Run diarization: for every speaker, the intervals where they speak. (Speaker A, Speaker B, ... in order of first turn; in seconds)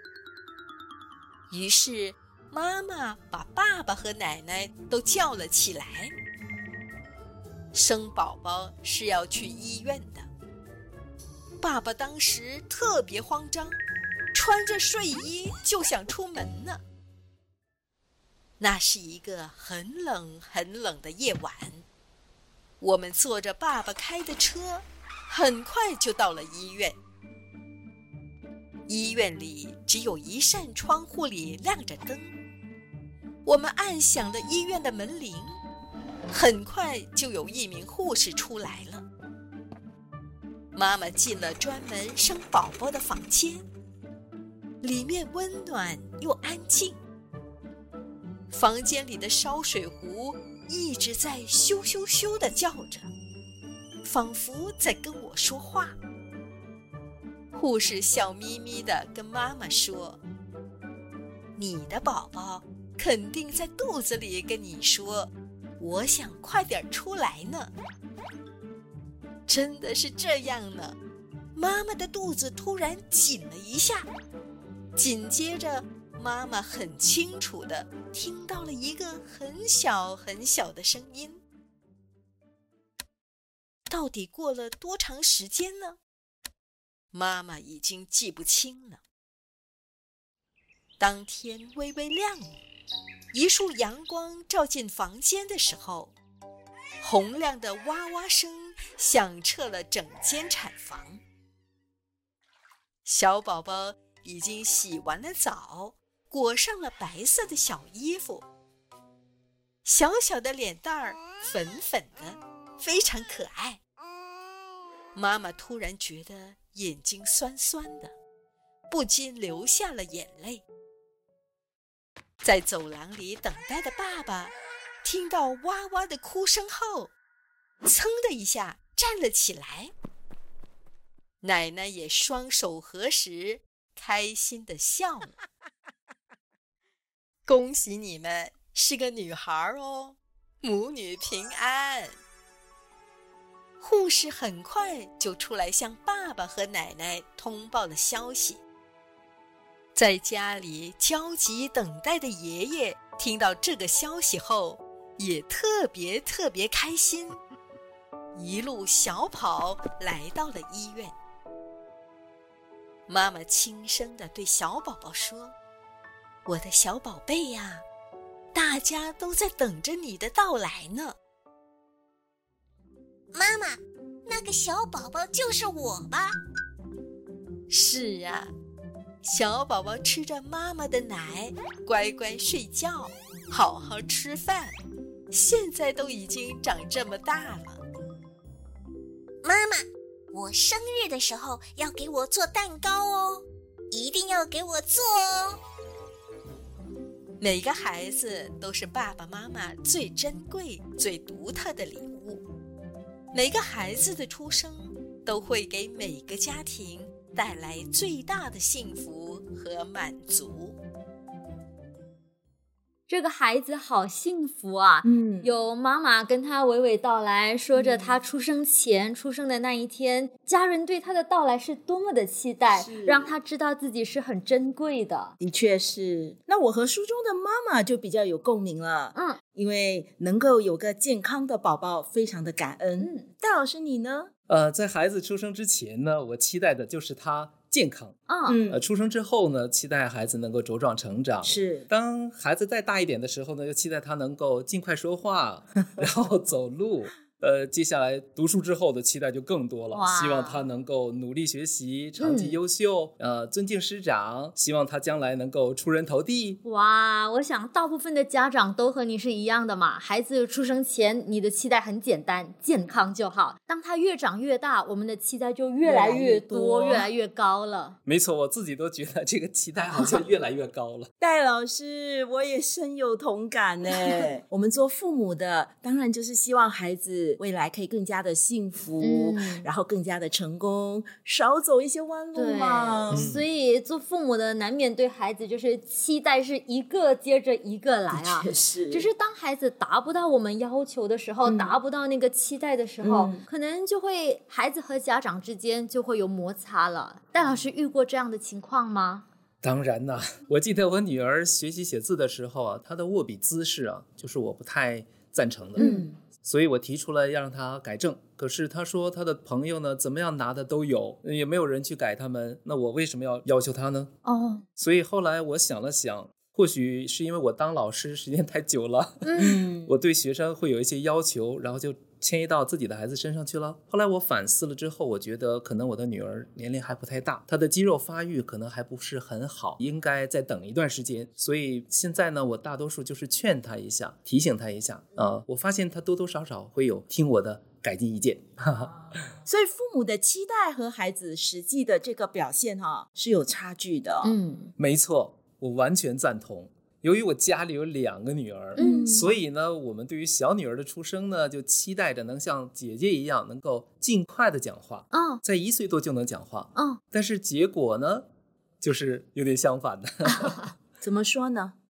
Speaker A: 1.5-6.1, 7.7-10.3, 11.6-13.8, 14.3-16.8, 18.6-21.8, 22.8-27.0, 28.9-32.3, 33.4-35.6, 36.3-39.0, 40.7-43.6, 44.8-47.0, 48.5-53.1, 54.0-56.0, 57.5-60.2, 61.5-67.7, 69.5-71.0, 71.5-74.1, 75.0-81.4, 83.9-86.0, 87.1-89.0, 91.0-92.6, 93.3-96.1, 97.0-101.2, 103.0-108.4, 109.8-113.8, 115.1-118.1, 118.9-120.6, 122.4-127.1, 127.8-129.9, 131.4-135.3, 137.4-142.2, 143.8-148.6, 149.9-157.4, 158.3-161.1, 163.1-165.5, 166.4-167.8, 168.5-171.2, 177.7-178.5, 179.2-184.7, 185.3-187.8, 197.4-202.4, 203.3-210.8
Speaker B: 173.3-176.4, 189.4-195.6
Speaker C: 213.1-225.3, 229.1-229.4, 233.0-233.3, 238.3-238.6, 249.9-250.6, 252.2-252.6, 256.6-268.0, 279.0-279.6, 282.3-299.2, 305.8-306.1, 314.2-314.6, 319.2-319.6, 344.2-344.7, 348.8-349.1, 355.1-355.4, 356.7-357.0
Speaker D: 215.0-215.5, 217.7-218.2, 222.7-223.3, 225.4-234.3, 238.5-238.8, 241.4-241.9, 265.8-267.1, 271.2-283.3, 288.1-289.1, 291.4-291.8, 293.0-293.4, 305.8-306.1, 319.4-319.9, 339.4-344.3, 348.8-349.3, 361.0-361.7
Speaker E: 234.5-238.1, 238.7-256.6, 268.1-271.1, 283.1-283.4, 299.6-314.1, 314.8-339.1, 344.8-358.2, 358.8-360.7